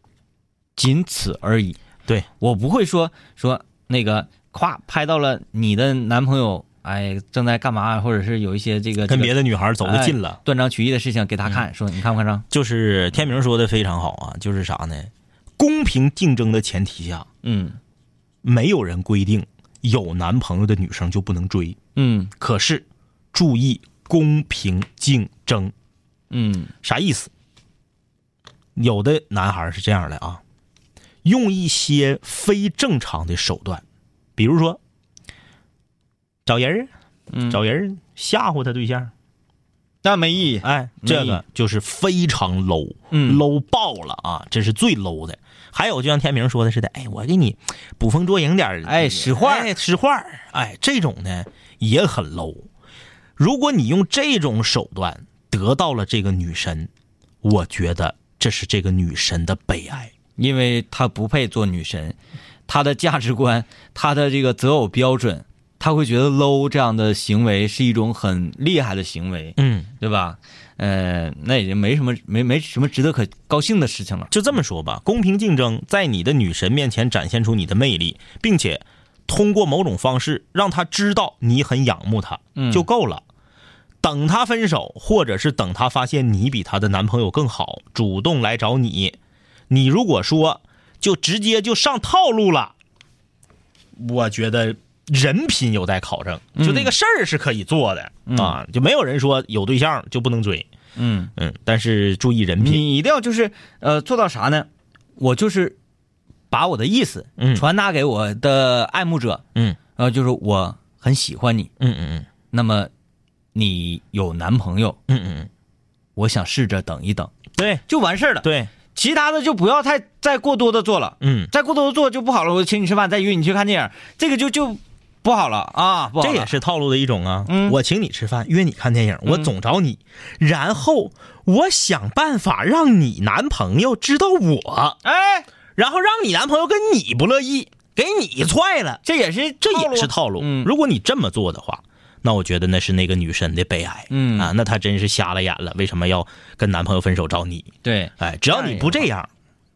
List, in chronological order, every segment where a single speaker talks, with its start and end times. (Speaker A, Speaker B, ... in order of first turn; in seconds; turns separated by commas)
Speaker A: 0.8-1.8, Speaker A: 2.4-12.4, Speaker B: 9.1-10.4, Speaker B: 12.5-17.3, Speaker A: 17.4-17.8, Speaker B: 18.4-21.8, Speaker A: 22.0-22.3, Speaker B: 22.4-25.7, Speaker A: 26.3-26.7, Speaker B: 26.8-27.3, Speaker B: 28.8-30.4, Speaker B: 31.2-33.8, Speaker B: 34.4-34.8, Speaker B: 36.5-36.9, Speaker A: 37.3-37.6, Speaker B: 37.5-39.1, Speaker A: 40.0-41.4, Speaker B: 40.6-52.7, Speaker A: 43.1-43.4, Speaker A: 48.9-49.7, Speaker B: 53.4-56.9, Speaker B: 57.4-60.1, Speaker A: 60.4-62.2, Speaker A: 62.7-74.3, Speaker B: 69.6-69.9, Speaker B: 74.3-83.2, Speaker A: 82.5-82.9, Speaker B: 84.0-89.2, Speaker B: 89.7-92.8, Speaker B: 94.0-100.7, Speaker A: 96.6-96.9, Speaker A: 98.3-98.6, Speaker A: 101.0-101.3, Speaker B: 101.4-102.9, Speaker A: 102.6-105.8, Speaker A: 106.5-109.4, Speaker B: 107.4-107.7, Speaker A: 110.0-111.7, Speaker B: 111.8-112.3, Speaker A: 112.5-112.9, Speaker A: 113.5-115.0, Speaker B: 115.1-115.5, Speaker A: 116.2-117.3, Speaker B: 117.6-117.8, Speaker A: 117.9-126.5, Speaker B: 118.4-118.7, Speaker B: 121.2-121.5, Speaker B: 126.2-135.0, Speaker A: 127.5-127.8, Speaker A: 129.3-129.5, Speaker A: 135.0-135.5, Speaker B: 135.8-139.0, Speaker A: 139.0-140.7, Speaker B: 139.6-149.3, Speaker A: 144.1-144.5, Speaker A: 147.8-149.1